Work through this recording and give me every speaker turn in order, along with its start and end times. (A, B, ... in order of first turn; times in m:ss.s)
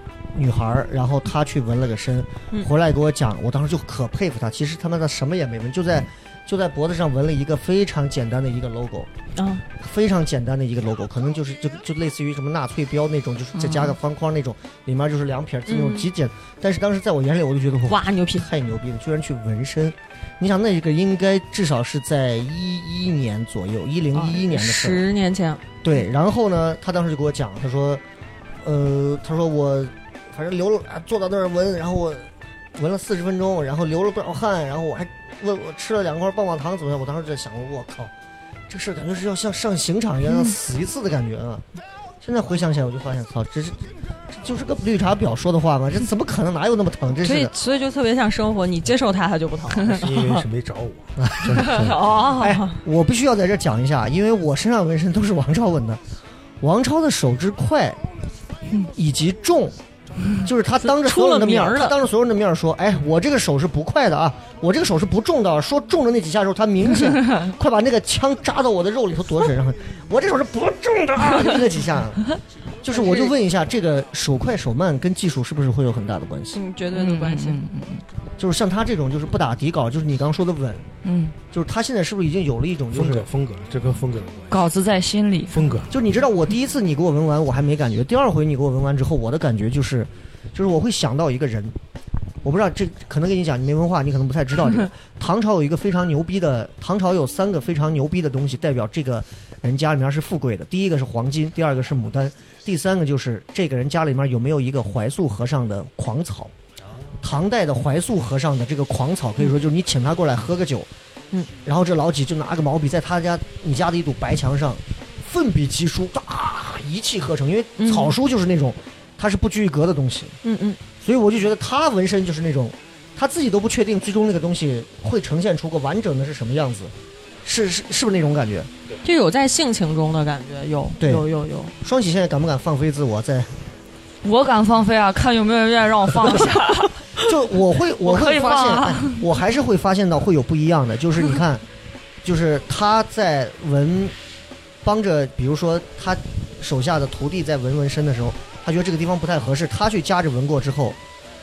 0:00.4-0:09.1 A
0:09.4-0:09.6 B
0:09.8-0:25.0 A
0:13.6-0:14.0 C
0:15.7-0:16.1 B
0:17.9-0:18.5 B
0:24.1-0:25.6 B
0:25.8-0:28.0 A
0:28.6-0:38.1 A
0:38.7-0:41.6 A
0:42.2-0:47.5 A
0:47.2-0:50.5 B
0:49.9-0:52.1 D
0:51.2-0:56.0 A
0:51.6-0:52.8 B
0:56.6-0:58.0 A
0:58.9-0:59.8 A
1:00.4-1:12.3 A
1:00.8-1:02.0 B
1:12.8-1:16.6 A
1:12.9-1:13.3 B
1:16.5-1:17.6 B
1:16.9-1:18.0 C
1:18.4-1:20.9 A
1:21.0-1:21.4 C
1:21.5-1:23.3 A
1:22.9-1:24.7 D
1:24.5-1:25.7 C
1:25.5-1:25.9 D
1:25.9-1:31.8 A
1:32.4-1:46.5 A
1:47.2-1:50.9 A
1:51.6-2:00.4 A
1:57.8-1:58.2 B
2:00.4-2:00.8 B
2:01.0-2:06.9 A
2:07.4-2:08.7 A
2:09.0-2:11.7 B
2:11.0-2:11.3 A
2:11.8-2:13.5 A
2:14.2-2:16.9 C
2:17.2-2:21.6 A
2:18.0-2:19.2 C
2:22.2-2:24.2 A
2:24.8-2:31.0 A